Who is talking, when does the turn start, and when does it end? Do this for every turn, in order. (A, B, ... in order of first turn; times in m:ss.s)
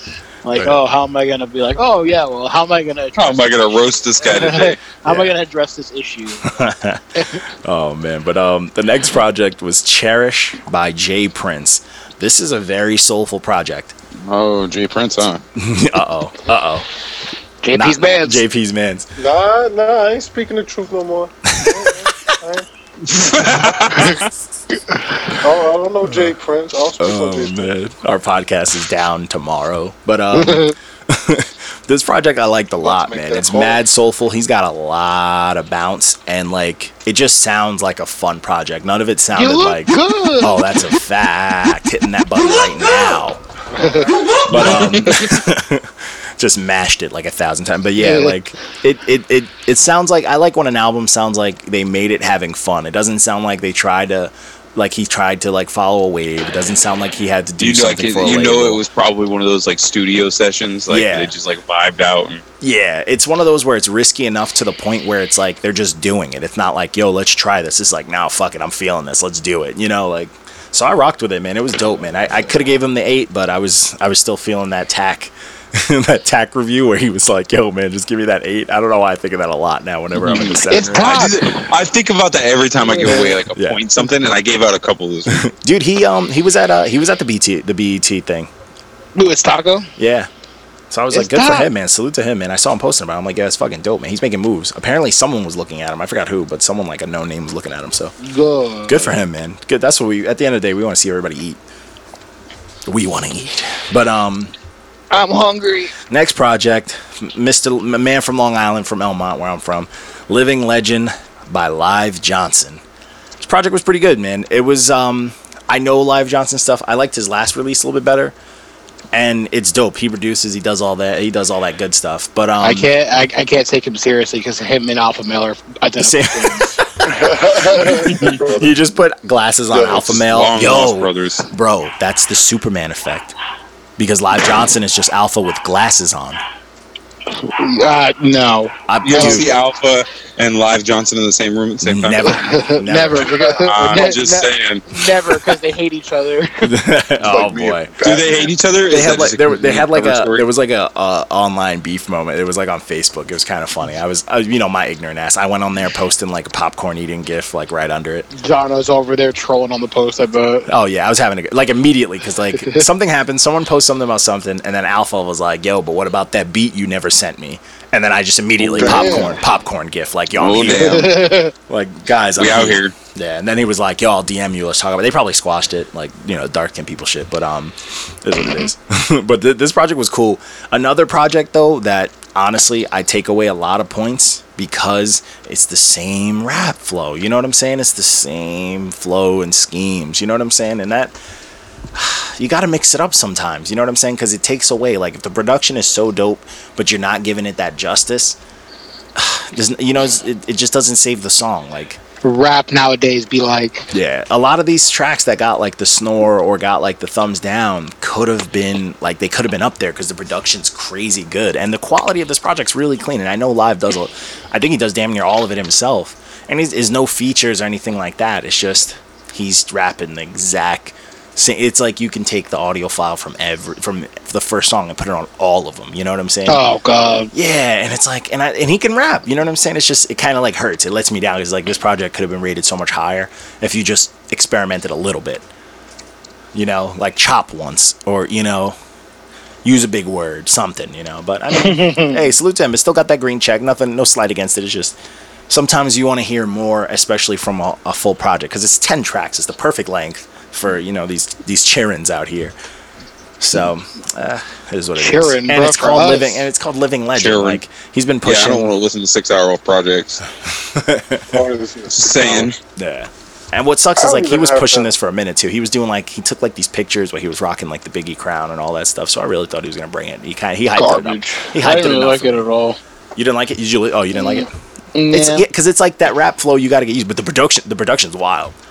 0:00.4-0:06.5 A
0:00.5-0:00.8 B
0:03.2-0:04.8 C
0:05.0-0:05.3 B
0:06.4-0:13.9 B
0:14.2-0:15.4 C
0:15.6-0:16.9 B
0:17.6-0:18.4 A
0:17.7-0:19.1 B
0:19.2-0:22.6 D
0:21.5-0:21.9 B
0:23.0-0:24.3 C
0:25.4-0:27.7 D
0:27.0-0:43.4 B
0:30.3-0:30.7 A
0:32.8-0:33.8 D
0:39.3-0:40.8 A
0:43.7-0:44.8 A
0:44.4-0:58.8 B
0:48.0-0:48.4 A
0:57.6-1:02.4 C
1:00.9-1:01.3 B
1:02.6-1:21.3 B
1:20.1-1:25.5 C
1:20.7-1:21.6 A
1:22.9-1:23.4 A
1:23.5-1:23.8 B
1:25.3-1:28.5 B
1:29.1-1:29.9 A
1:30.0-1:30.3 B
1:30.9-1:38.1 B
1:31.1-1:31.7 A
1:38.2-1:39.2 A
1:38.9-1:41.6 B
1:42.8-1:44.5 B
1:45.1-1:45.9 A
1:46.1-1:52.8 B
1:53.4-1:58.3 B
1:59.1-2:02.9 B
2:02.6-2:06.8 A
2:06.0-2:06.8 B
2:07.0-2:08.7 D
2:07.8-2:13.3 B
2:09.7-2:10.1 D
2:10.0-2:11.4 C
2:14.0-2:16.4 B
2:17.4-2:19.4 A
2:18.9-2:19.6 B
2:19.0-2:22.3 C
2:21.8-2:23.4 B
2:22.2-2:26.8 A
2:23.3-2:24.0 D
2:23.6-2:25.0 C
2:26.6-2:27.9 B
2:27.2-2:28.6 D
2:28.0-2:30.4 C
2:28.9-2:38.3 B
2:38.3-2:40.7 A
2:40.7-3:11.2 B
2:48.6-2:49.3 C
2:48.7-2:49.4 D
2:50.4-2:51.1 C
2:50.6-2:51.5 A
2:52.4-2:52.9 C
3:11.9-3:18.4 B
3:19.1-3:22.0 B
3:22.2-3:23.9 A
3:23.9-3:46.6 B
3:46.5-3:47.3 A
3:47.3-3:55.4 B
3:56.5-3:58.8 B
3:59.6-4:05.0 B
4:01.6-4:02.2 A
4:05.5-4:12.5 B
4:13.4-4:18.7 B
4:15.0-4:16.4 A
4:17.1-4:17.6 C
4:18.2-4:20.2 C
4:20.5-4:21.4 B
4:21.3-4:22.6 D
4:21.9-4:22.6 C
4:22.8-4:32.4 B
4:24.0-4:24.9 D
4:30.7-4:32.8 A
4:33.2-4:34.5 B
4:34.1-4:35.5 A
4:35.1-4:38.5 B